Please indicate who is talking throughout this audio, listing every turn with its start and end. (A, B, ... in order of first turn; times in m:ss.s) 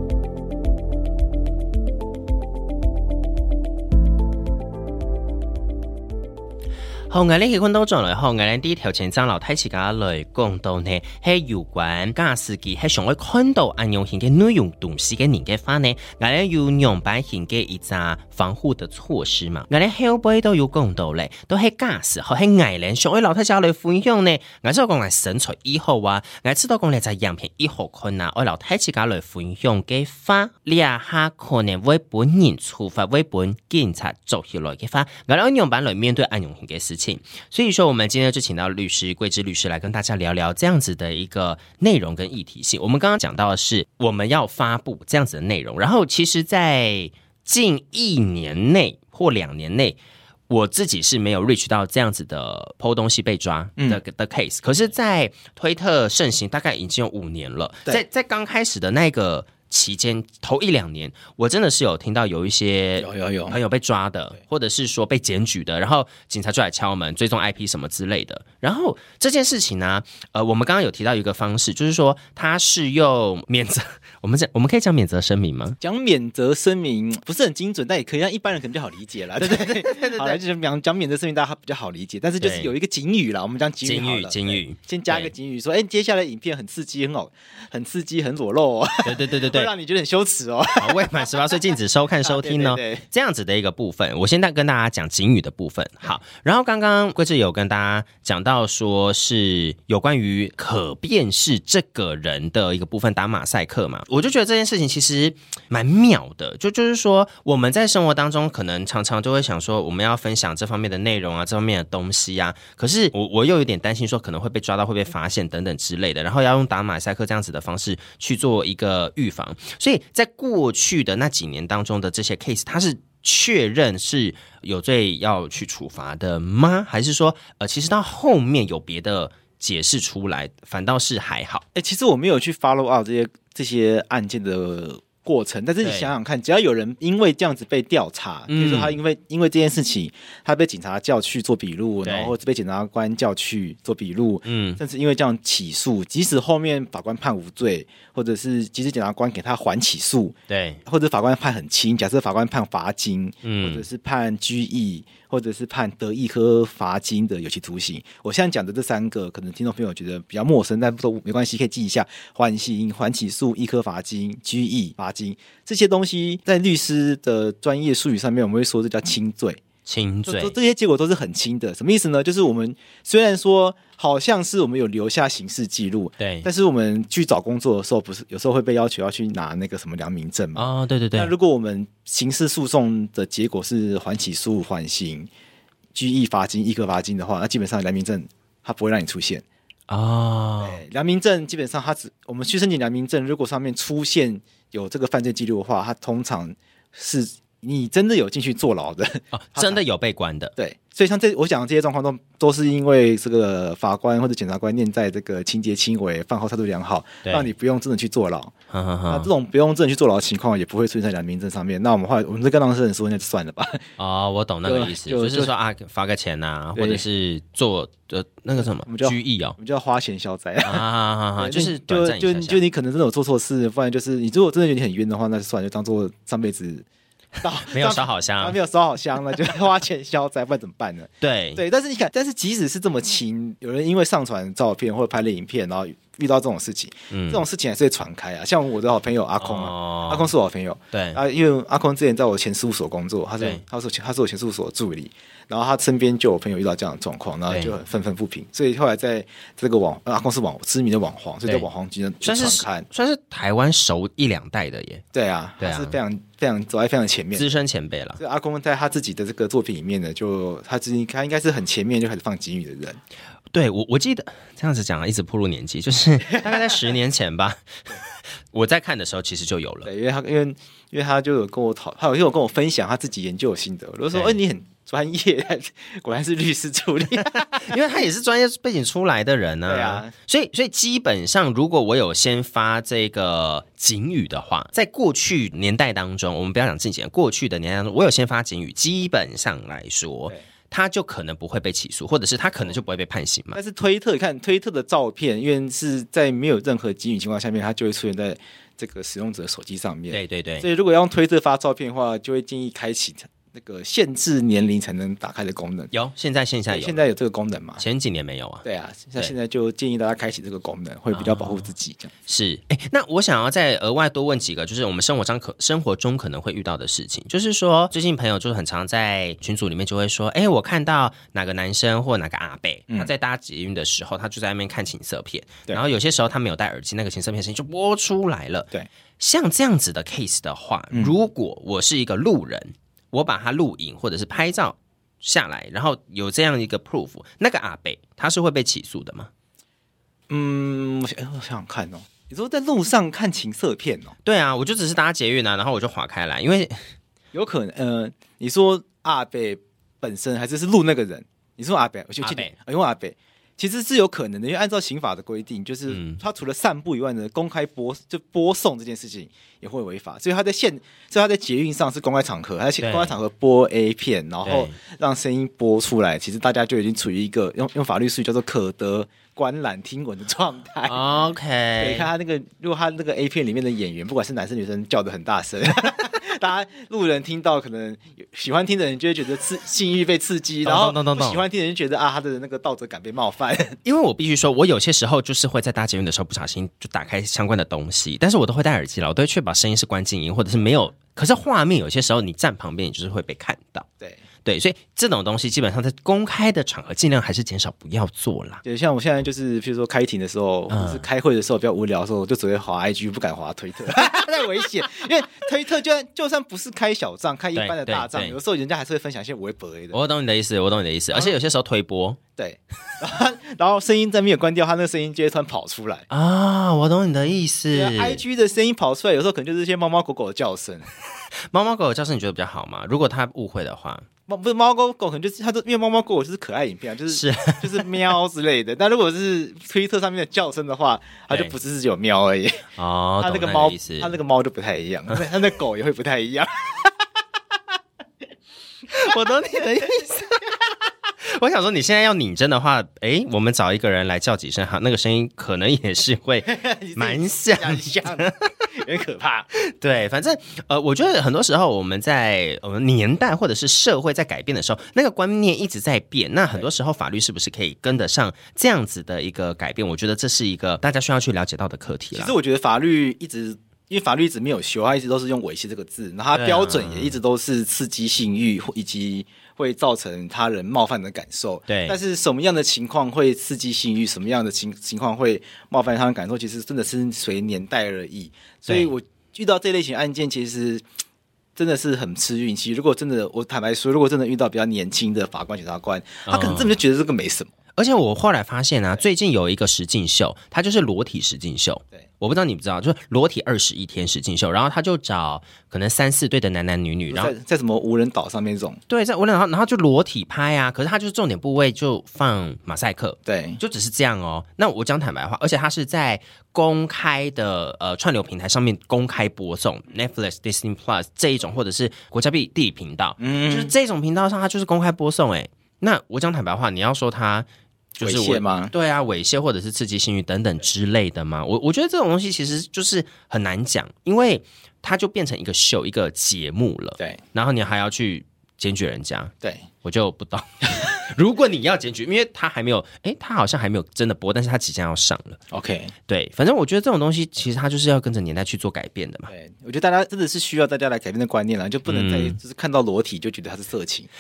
0:07.1-1:15.8 A
1:03.0-1:03.6 B
1:15.8-1:31.4 B
1:19.4-1:20.4 A
1:22.4-1:22.7 A
1:23.8-1:25.3 A
1:29.0-1:29.7 A
1:30.8-2:11.6 A
1:32.2-1:33.1 B
2:11.8-2:49.6 B
2:15.8-2:16.1 A
2:18.5-2:19.0 A
2:22.0-2:22.3 A
2:24.4-2:24.8 A
2:30.5-2:30.8 A
2:33.4-2:33.8 A
2:49.9-2:50.6 A
2:50.3-3:05.3 B
2:56.2-2:56.5 A
3:00.6-3:01.3 A
3:06.0-3:09.4 B
3:09.9-3:10.8 A
3:10.6-3:19.8 B
3:19.3-3:20.5 A
3:20.6-3:28.5 B
3:27.2-3:27.5 A
3:28.7-3:29.3 A
3:29.1-3:33.8 B
3:34.0-3:39.6 A
3:34.6-3:35.5 B
3:36.8-3:37.0 B
3:38.6-3:40.8 B
3:40.6-3:42.6 A
3:41.4-3:46.9 B
3:47.4-4:12.9 B
3:47.6-3:48.6 A
3:51.2-3:51.6 A
3:57.1-3:57.4 A
3:59.4-4:00.3 A
4:00.9-4:01.2 A
4:07.5-4:07.8 A
4:12.2-4:15.0 A
4:15.1-4:17.6 B
4:15.6-4:16.0 A
4:17.3-4:18.2 A
4:18.2-4:23.0 B
4:23.5-4:29.9 A
4:26.3-4:26.9 B
4:29.8-4:37.8 B
4:34.1-4:34.4 A
4:37.2-4:53.6 A
4:39.7-4:40.1 B
4:53.5-5:05.9 B
5:00.1-5:00.7 A
5:05.9-5:07.0 A
5:06.7-5:07.8 B
5:07.8-5:08.6 A
5:08.6-5:12.1 B
5:11.1-5:11.7 A
5:12.3-5:39.3 A
5:40.3-5:44.2 B
5:44.2-5:46.8 A
5:47.3-6:11.0 B
5:52.2-5:52.5 A
5:55.9-5:56.2 A
6:02.8-6:03.1 A
6:04.4-6:04.8 A
6:10.9-6:12.1 A
6:11.8-6:23.8 B
6:20.6-6:21.4 A
6:23.8-6:33.9 A
6:34.4-6:38.6 A
6:38.6-6:50.0 B
6:40.7-6:41.1 A
6:47.6-6:48.4 A
6:49.9-6:52.2 A
6:52.4-6:56.1 B
6:56.1-6:58.2 A
6:57.7-7:00.9 B
7:01.5-7:04.1 A
7:04.3-7:12.7 B
7:07.1-7:07.9 A
7:11.3-7:11.6 A
7:12.8-7:14.1 A
7:13.2-7:16.9 B
7:18.9-7:20.6 A
7:21.2-7:28.7 A
7:26.5-7:29.5 B
7:29.6-7:42.4 A
7:42.1-8:00.8 B
7:46.3-7:47.2 A
7:51.7-7:52.0 A
7:58.7-7:58.9 A
8:01.6-8:07.5 B
8:06.3-8:06.8 A
8:07.8-8:17.3 A
8:17.1-8:18.8 B
8:18.9-8:55.4 A
8:23.2-8:23.6 B
8:33.2-8:33.7 B
8:38.0-8:38.7 B
8:55.5-8:55.9 B
8:56.1-8:59.3 A
8:59.3-9:04.1 B
9:01.9-9:02.4 A